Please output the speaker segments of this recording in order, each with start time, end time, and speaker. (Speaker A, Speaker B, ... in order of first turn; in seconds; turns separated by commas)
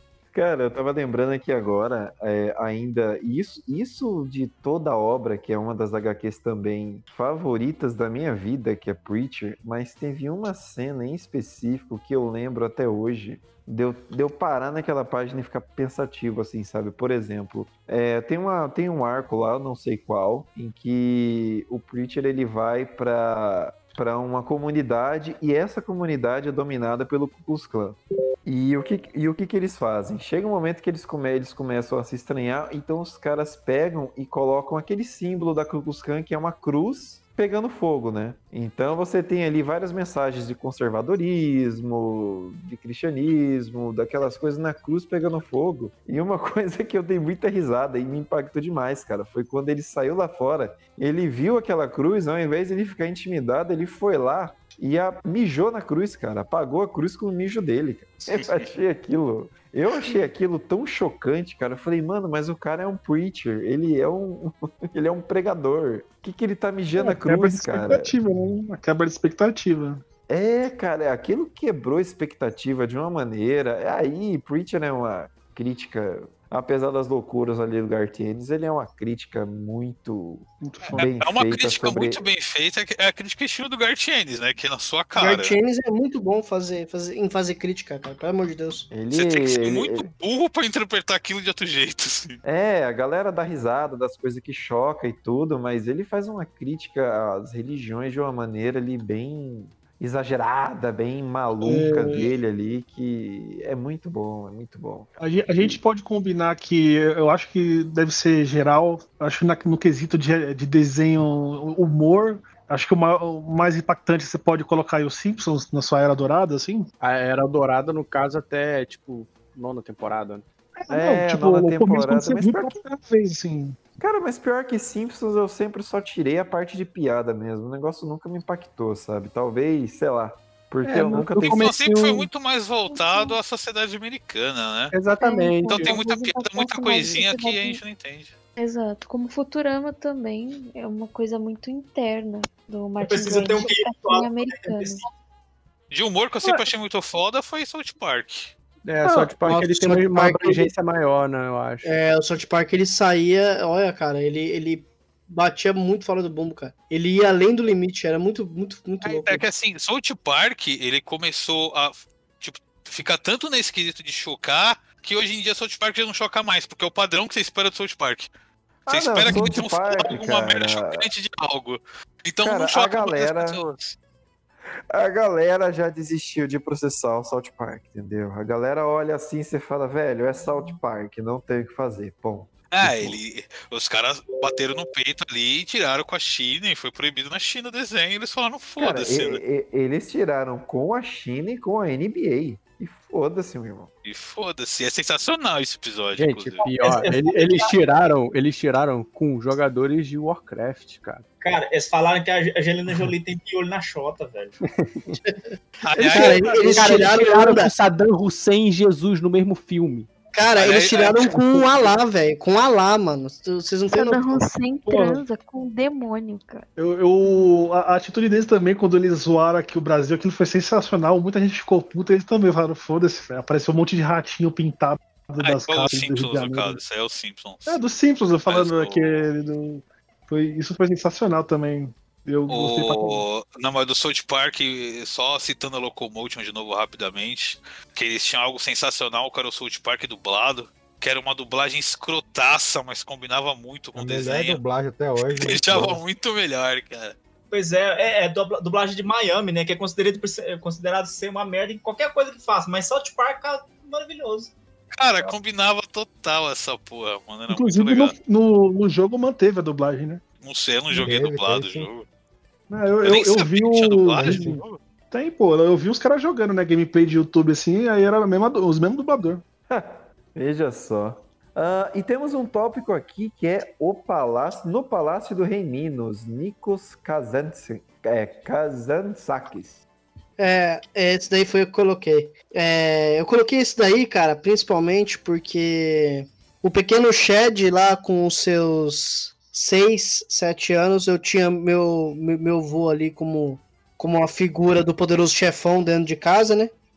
Speaker A: 0.3-68.1, Speaker B: 58.3-58.7, Speaker C: 67.0-70.0, Speaker A: 70.3-82.2, Speaker C: 80.6-81.2, Speaker B: 81.0-85.6, Speaker D: 85.1-88.9, Speaker A: 88.9-90.0, Speaker B: 89.1-92.4, Speaker A: 92.4-105.8, Speaker C: 101.6-102.3, Speaker C: 105.2-116.9, Speaker E: 117.0-120.4, Speaker C: 120.8-123.8, Speaker A: 120.9-122.7, Speaker A: 124.0-131.7, Speaker E: 130.8-132.2, Speaker B: 131.4-134.9, Speaker F: 132.9-133.4, Speaker E: 134.9-136.0, Speaker F: 135.2-137.8, Speaker B: 135.7-138.3, Speaker F: 138.6-145.1, Speaker G: 143.0-145.1, Speaker B: 145.9-148.5, Speaker E: 148.8-151.9, Speaker D: 149.0-150.7, Speaker D: 151.8-159.4, Speaker B: 159.0-168.3, Speaker A: 168.8-171.1, Speaker B: 168.9-173.9, Speaker A: 172.4-173.6, Speaker A: 174.9-183.2, Speaker B: 182.7-189.4, Speaker A: 188.8-193.9, Speaker B: 194.0-196.6, Speaker E: 196.2-201.2, Speaker G: 196.7-197.7, Speaker G: 201.4-204.6, Speaker E: 204.6-205.2, Speaker D: 205.2-207.7, Speaker B: 205.8-206.5, Speaker E: 206.2-210.1, Speaker C: 206.5-206.8, Speaker D: 210.3-214.4, Speaker B: 210.6-211.2, Speaker E: 211.3-211.7, Speaker F: 213.9-216.7, Speaker C: 214.9-215.2, Speaker C: 216.8-226.8, Speaker B: 225.4-227.8, Speaker C: 227.7-233.2, Speaker B: 228.5-229.2, Speaker B: 232.5-244.6, Speaker H: 243.9-246.0, Speaker B: 245.2-247.1, Speaker G: 247.5-254.5, Speaker B: 254.9-258.1, Speaker C: 257.5-260.2, Speaker B: 260.4-262.1, Speaker H: 260.9-261.9, Speaker C: 262.7-269.4, Speaker B: 263.0-264.8, Speaker A: 269.7-279.8, Speaker D: 280.4-296.7